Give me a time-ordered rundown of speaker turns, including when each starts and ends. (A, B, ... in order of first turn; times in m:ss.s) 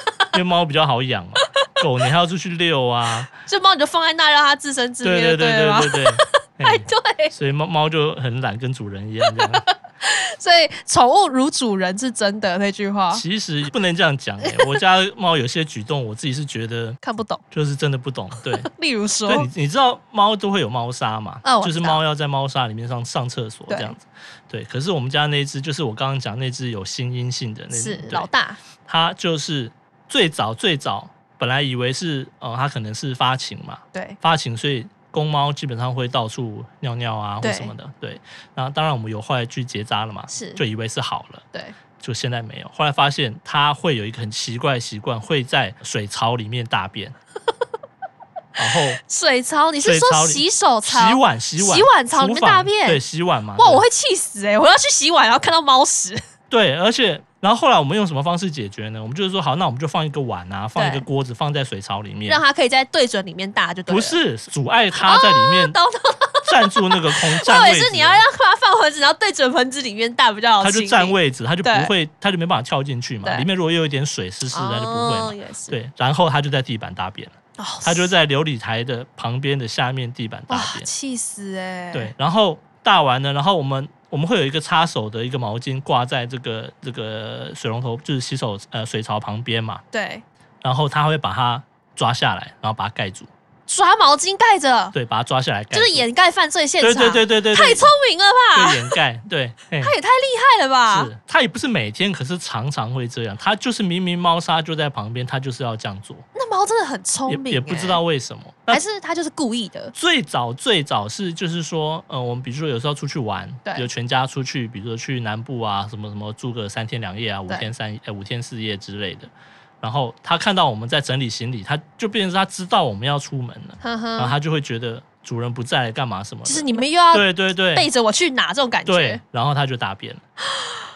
0:00.3-0:03.3 A
0:03.4-0:07.3 B
0:05.0-0:09.6 A
0:09.2-0:13.2 B
0:13.1-0:17.0 A
0:14.4-0:14.8 B
0:17.0-0:17.4 B
0:17.5-0:18.7 A
0:18.6-0:19.5 B
0:19.2-0:28.3 A
0:21.4-0:22.0 B
0:23.7-0:24.0 B
0:27.7-0:28.6 B
0:28.8-0:41.4 A
0:33.9-0:34.2 B
0:37.4-0:37.7 B
0:40.3-0:40.6 B
0:42.0-0:47.1 A
0:48.6-0:49.0 A
0:48.7-0:53.0 B
0:49.8-0:53.8 A
0:53.6-0:56.2 B
0:56.5-1:02.4 A
1:00.8-1:01.0 B
1:02.3-1:04.2 B
1:03.9-1:05.8 A
1:05.0-1:11.9 B
1:06.4-1:08.2 A
1:10.6-1:20.9 A
1:13.2-1:13.5 B
1:14.5-1:15.8 B
1:17.6-1:18.1 B
1:20.5-1:22.1 B
1:21.9-1:29.8 A
1:29.9-1:30.2 B
1:30.6-1:33.3 A
1:33.7-1:34.9 B
1:34.9-1:36.0 A
1:35.7-1:39.0 B
1:36.8-1:37.9 A
1:38.5-1:39.9 A
1:39.8-1:41.1 B
1:40.9-1:46.2 A
1:46.3-1:48.0 B
1:47.3-1:48.8 A
1:48.7-1:49.9 B
1:49.9-1:59.3 A
1:59.8-2:07.9 A
2:03.8-2:04.4 B
2:06.4-2:09.2 B
2:08.8-2:10.2 A